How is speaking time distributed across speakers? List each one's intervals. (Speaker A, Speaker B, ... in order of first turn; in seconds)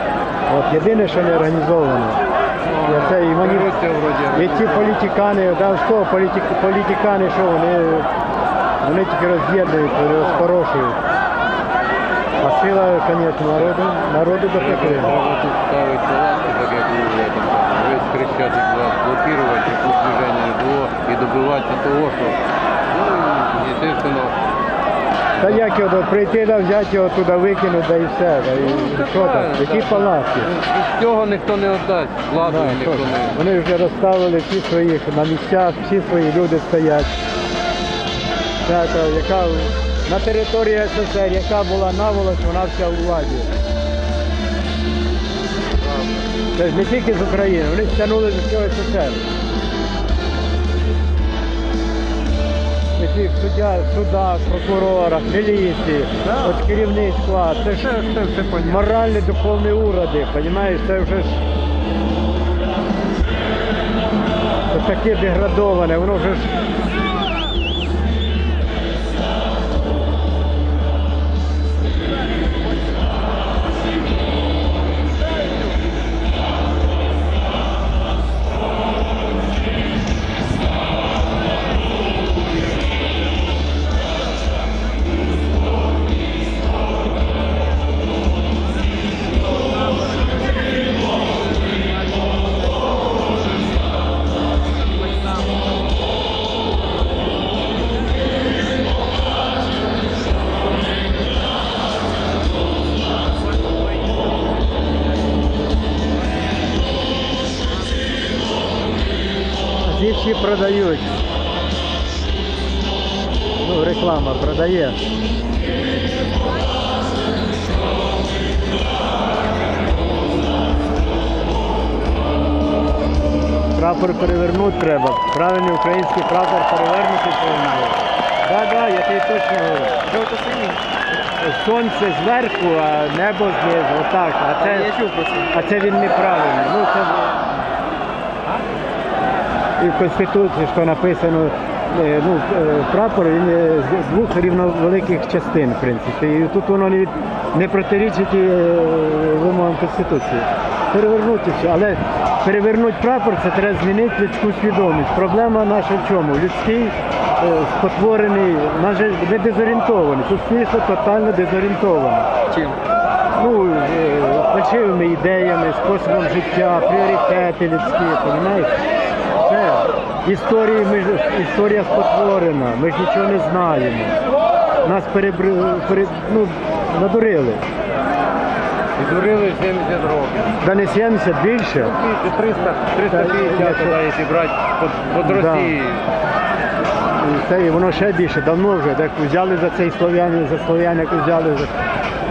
Speaker A: 0.5-2.2, 2.9-3.8, 4.3-8.1, 8.8-11.0, 12.4-15.2, 25.4-30.5, 32.4-37.1, 38.6-43.5, 46.5-49.2, 53.0-57.9, 58.6-61.4, 64.7-66.5, 109.8-111.2, 113.6-115.0, 123.7-129.9, 131.4-134.9, 135.5-137.7, 139.8-162.3, 163.4-168.8, 169.4-174.2, 174.8-177.7, 180.6-181.9, 183.1-184.0, 185.2-185.8, 187.2-191.8
Speaker B: 2.6-4.9, 10.2-10.5, 14.6-22.4, 22.9-24.4, 28.6-33.4, 57.9-58.8, 179.0-180.6, 181.9-186.0
Speaker C: 130.1-130.8, 134.6-135.5, 162.5-162.8